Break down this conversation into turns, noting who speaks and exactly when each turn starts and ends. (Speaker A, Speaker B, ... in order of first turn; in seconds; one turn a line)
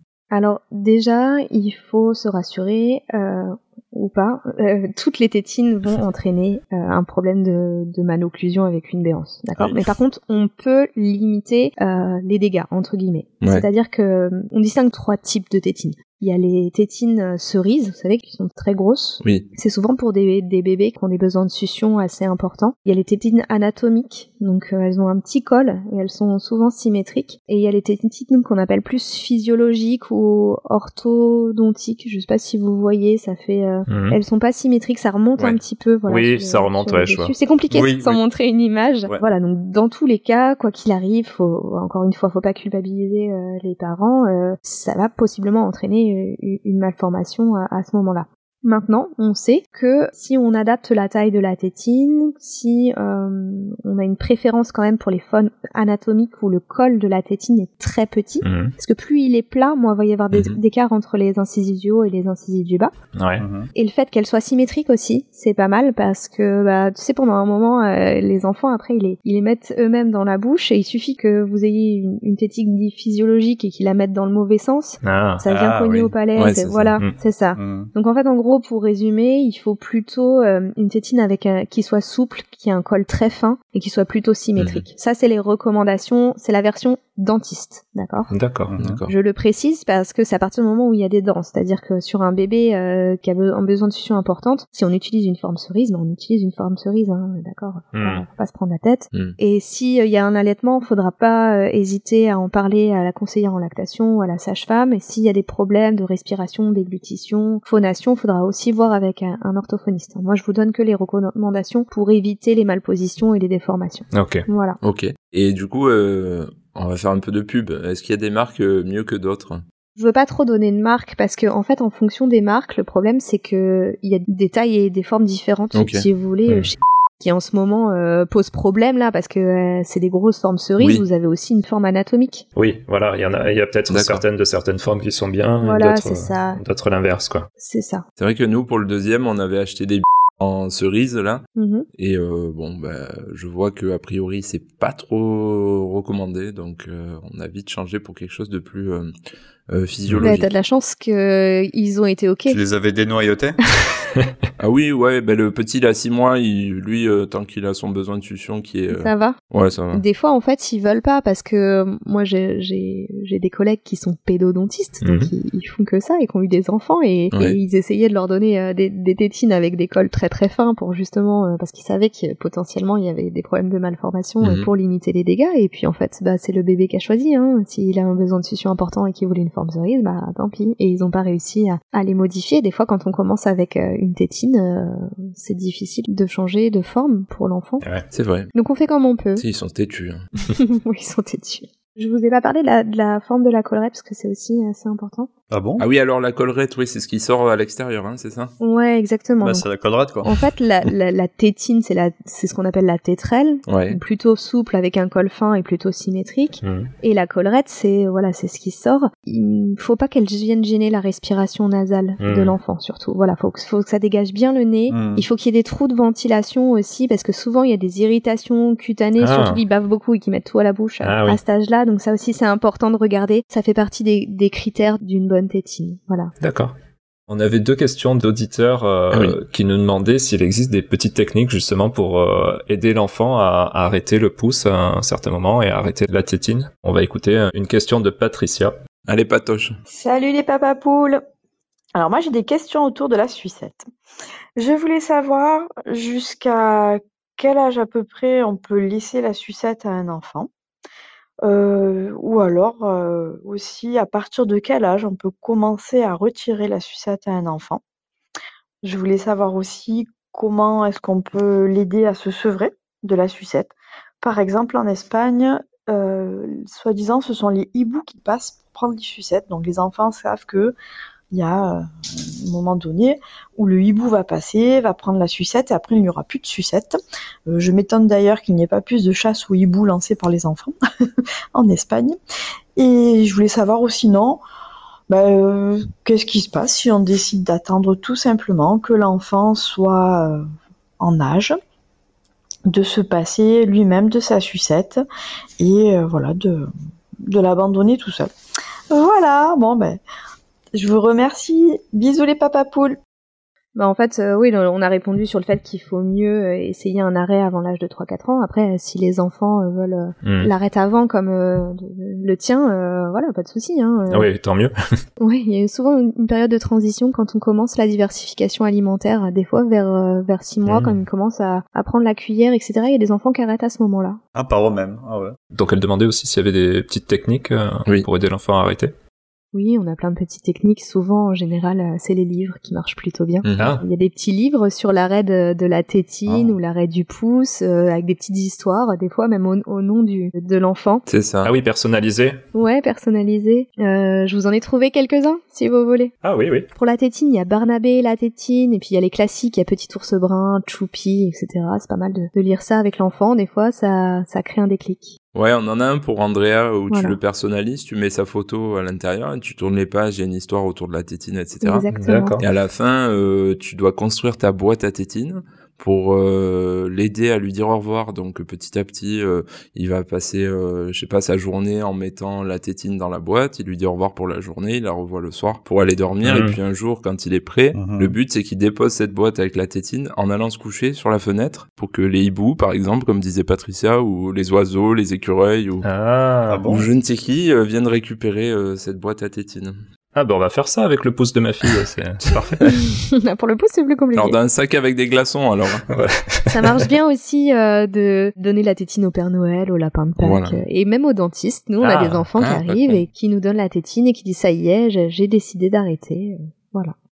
Speaker A: 0.3-62.9
Speaker B: 13.4-13.7
Speaker B: 19.2-19.5
Speaker C: 33.9-34.2
Speaker C: 36.1-37.3
Speaker D: 37.7-38.2
Speaker C: 58.4-58.7
Speaker B: 60.3-60.6
Speaker C: 63.1-63.5
Speaker D: 63.4-63.7
Speaker A: 63.8-88.3
Speaker C: 75.0-75.4
Speaker D: 75.5-76.1
Speaker B: 76.4-76.9
Speaker D: 77.6-77.9
Speaker B: 84.6-84.8
Speaker C: 88.3-88.7
Speaker D: 88.7-89.0
Speaker B: 88.8-89.1
Speaker A: 89.1-114.8
Speaker C: 97.9-98.2
Speaker C: 114.1-114.5
Speaker B: 114.8-119.6
Speaker A: 120.0-132.4
Speaker B: 125.7-126.0
Speaker B: 130.8-131.1
Speaker C: 132.6-137.5
Speaker B: 133.9-134.2
Speaker A: 135.6-136.6
Speaker A: 137.6-138.1
Speaker B: 138.2-141.4
Speaker A: 141.6-141.9
Speaker B: 142.0-149.1
Speaker B: 149.7-150.5
Speaker A: 150.2-152.6
Speaker D: 152.5-153.6
Speaker B: 154.6-160.0
Speaker A: 158.9-159.4
Speaker A: 159.9-187.8
Speaker C: 165.0-165.3
Speaker B: 167.3-167.6
Speaker B: 174.4-174.7
Speaker C: 187.8-188.1
Speaker B: 188.1-188.5
Speaker A: 188.5-189.4
Speaker B: 189.4-190.2
Speaker A: 190.5-195.3
Speaker D: 195.5-195.8
Speaker B: 195.8-198.5
Speaker A: 198.6-199.7
Speaker D: 199.4-200.3
Speaker A: 200.2-226.3
Speaker B: 203.7-204.0
Speaker C: 206.6-206.9
Speaker C: 212.2-212.6
Speaker D: 214.9-215.3
Speaker C: 219.2-219.6
Speaker C: 221.0-221.4
Speaker C: 226.4-226.8
Speaker C: 227.3-238.8
Speaker B: 229.1-229.4
Speaker B: 239.1-239.8
Speaker E: 239.9-241.2
Speaker E: 241.9-243.9
Speaker E: 244.6-250.5
Speaker E: 251.4-257.8
Speaker E: 258.8-270.8
Speaker E: 271.3-280.7
Speaker E: 281.5-282.2
Speaker E: 282.8-284.4
Speaker E: 285.1-290.4
Speaker E: 291.0-291.6
Speaker E: 292.7-295.0
Speaker E: 295.6-296.7
Speaker E: 297.3-298.3
Speaker E: 298.9-300.0
Speaker E: 300.8-303.0
Speaker A: 303.8-314.3
Speaker C: 310.2-310.5
Speaker C: 314.1-314.7
Speaker A: 315.2-324.2
Speaker C: 320.7-321.0
Speaker D: 324.3-325.4
Speaker C: 325.5-328.9
Speaker A: 329.5-341.1
Speaker B: 333.4-333.8
Speaker C: 333.6-333.8
Speaker B: 341.1-341.5
Speaker C: 341.4-342.4
Speaker A: 342.5-346.1
Speaker C: 346.2-346.7
Speaker A: 346.7-355.2
Speaker B: 355.4-361.9
Speaker A: 356.9-357.2
Speaker A: 361.6-362.4
Speaker C: 361.9-362.5
Speaker B: 362.4-385.9
Speaker C: 376.2-376.6
Speaker D: 377.7-378.1
Speaker C: 385.8-386.7
Speaker D: 386.5-386.9
Speaker B: 386.7-389.8
Speaker C: 390.1-392.6
Speaker A: 392.6-394.4
Speaker B: 394.1-395.9
Speaker C: 395.9-396.9
Speaker A: 396.5-406.9
Speaker B: 400.2-400.6
Speaker C: 401.8-402.3
Speaker B: 402.4-403.0